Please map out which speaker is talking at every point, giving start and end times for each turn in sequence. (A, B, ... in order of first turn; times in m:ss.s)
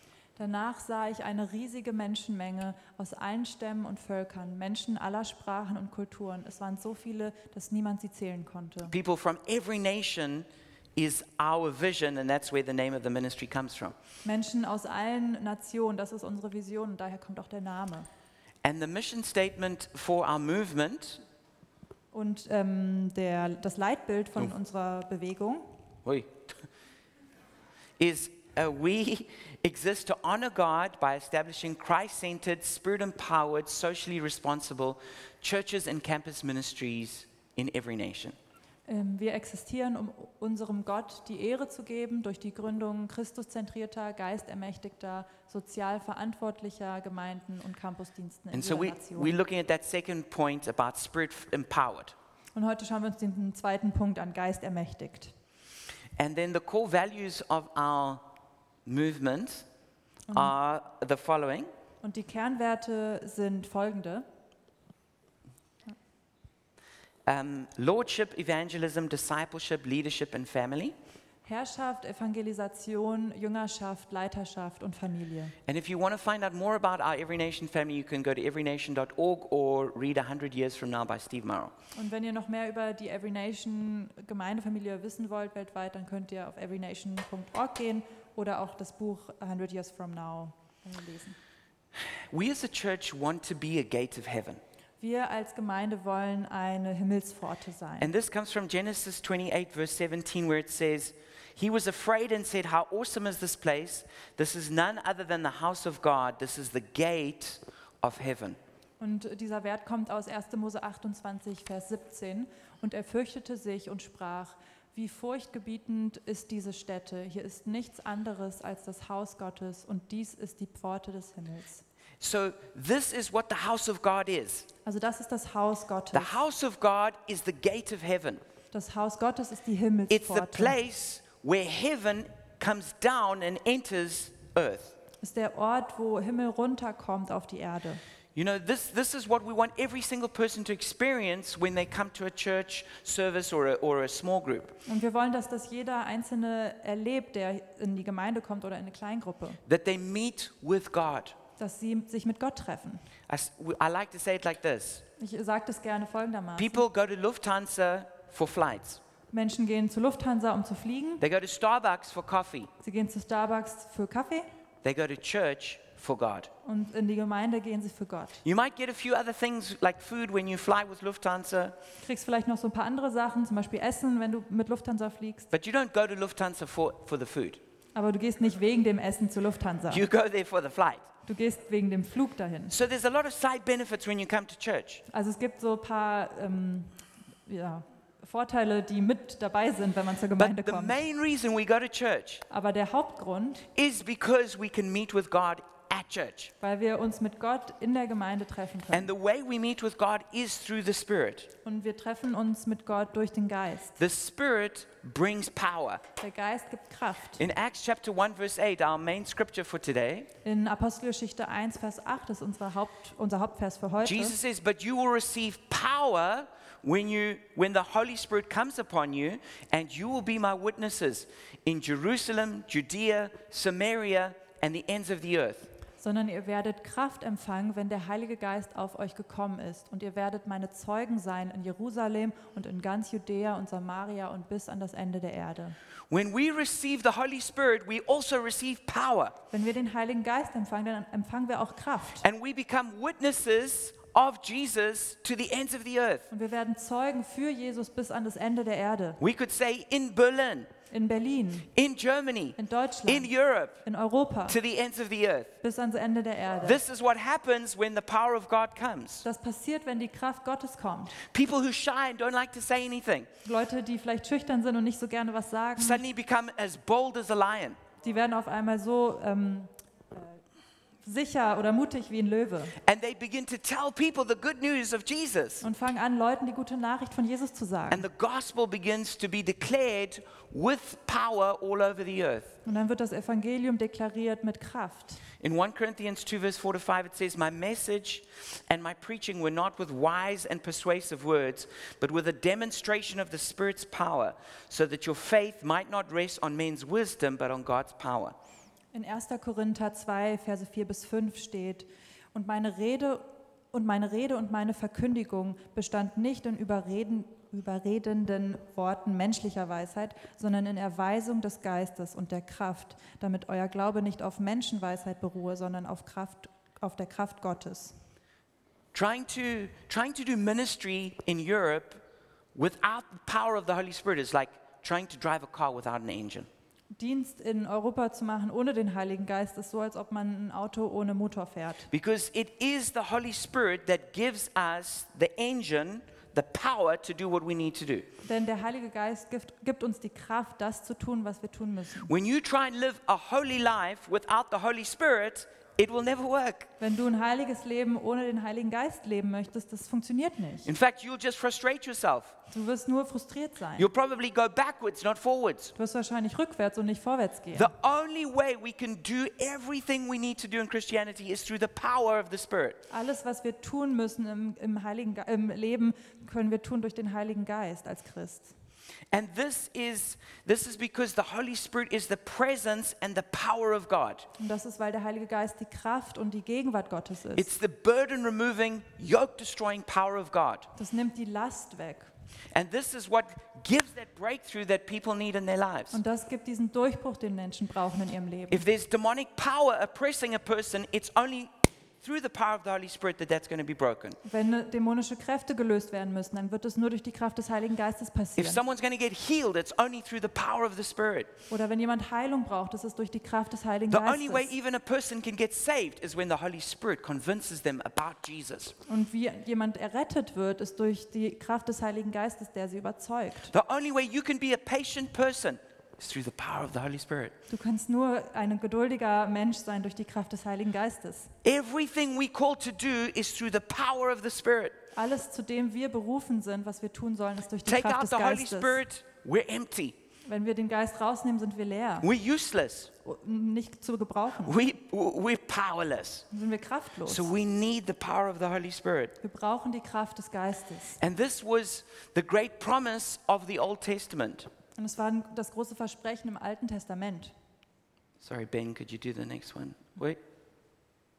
0:00.4-0:08.9 A
0:08.9-0:13.9 B
0:14.2-0:18.1 A
0:18.6-0:21.2 B
0:22.1-0:25.8 A
0:26.0-0:26.5 B
0:28.0-0:38.4 B
0:38.9-0:49.4 A
0:48.5-0:52.1 B
0:52.5-0:55.3 A
0:56.2-0:58.2 B
0:58.8-0:59.6 B
1:00.3-1:00.5 A
1:00.3-1:01.7 B
1:02.0-1:04.2 A
1:07.3-1:10.9 B
1:11.4-1:15.5 A
1:15.6-1:21.7 B
1:21.9-1:31.4 A
1:32.3-1:34.6 B
1:35.0-1:38.1 A
1:38.0-1:48.6 B
1:49.0-2:01.8 A
2:02.2-2:04.7 B
2:04.8-2:06.4 A
2:06.1-2:08.4 B
2:08.7-2:10.8 A
2:10.1-2:14.9 B
2:15.2-2:18.0 A
2:18.3-2:24.8 B
2:24.8-2:29.6 A
2:29.6-2:31.4 B
2:31.6-2:33.0 A
2:33.3-2:35.0 B
2:35.2-2:36.8 A
2:36.6-2:39.0 B
2:39.3-2:41.2 A
2:41.2-2:42.7 B
2:42.8-2:44.5 A
2:44.8-2:46.5 B
2:46.6-2:48.4 A
2:48.4-2:51.8 B
2:52.0-2:55.5 A
2:55.5-2:57.6 B
2:57.9-3:00.0 A
2:59.9-3:01.1 B
3:01.2-3:02.7 A
3:02.7-3:05.0 B
3:05.1-3:06.9 A
3:07.5-3:11.0 A
3:10.4-3:12.4 B
3:12.5-3:13.7 A
3:13.7-3:16.5 B
3:16.6-3:19.1 A
3:18.9-3:21.5 B
3:21.6-3:24.0 A
3:24.0-3:26.0 B
3:26.2-3:27.4 A
3:27.4-3:30.3 B
3:30.4-3:34.4 A
3:34.0-3:45.7 B
3:46.0-3:55.8 A
3:56.1-3:59.3 B
3:59.5-4:02.2 A
4:02.2-4:06.3 B
4:06.3-4:09.2 A
4:09.2-4:10.7 B
4:10.9-4:11.7 A
4:11.7-4:13.8 B
4:12.6-4:13.3 A
4:13.8-4:14.6 A
4:14.5-4:15.5 B
4:15.6-4:16.8 A
4:16.6-4:19.2 B
4:19.2-4:21.2 A
4:21.2-4:23.3 B
4:23.4-4:26.0 A
4:25.8-4:27.8 B
4:28.0-4:30.4 A
4:31.0-4:32.7 A
4:32.8-4:35.6 B
4:35.6-4:38.0 A
4:37.9-4:42.6 B
4:42.6-4:45.2 A
4:45.4-4:58.3 B
4:58.9-5:18.0 A
5:18.9-5:22.0 B
5:22.5-5:26.5 B
5:26.9-5:31.9 A
5:31.9-5:38.1 B
5:38.2-5:42.1 A
5:42.1-5:46.7 B
5:46.8-5:50.7 A
5:50.6-5:52.3 B
5:52.5-5:53.9 A
5:53.8-5:55.7 B
5:55.8-5:57.7 A
5:57.5-6:02.8 B
6:02.9-6:08.5 A
6:09.1-6:14.3 B
6:14.4-6:17.5 A
6:17.3-6:20.7 B
6:20.8-6:22.1 A
6:22.5-6:26.0 B
6:25.9-6:28.6 A
6:28.5-6:34.2 B
6:34.2-6:38.6 A
6:38.4-6:41.3 B
6:41.5-6:44.5 A
6:43.9-6:48.7 B
6:48.9-6:53.5 A
6:53.5-6:57.3 B
6:57.5-7:01.3 A
7:01.4-7:04.8 B
7:04.9-7:08.8 A
7:07.6-7:09.9 B
7:10.2-7:12.1 A
7:12.0-7:12.9 B
7:13.0-7:14.6 A
7:14.4-7:16.3 B
7:16.3-7:17.3 A
7:17.1-7:19.1 B
7:19.2-7:21.0 A
7:21.0-7:24.5 B
7:24.8-7:27.3 A
7:28.2-7:30.2 B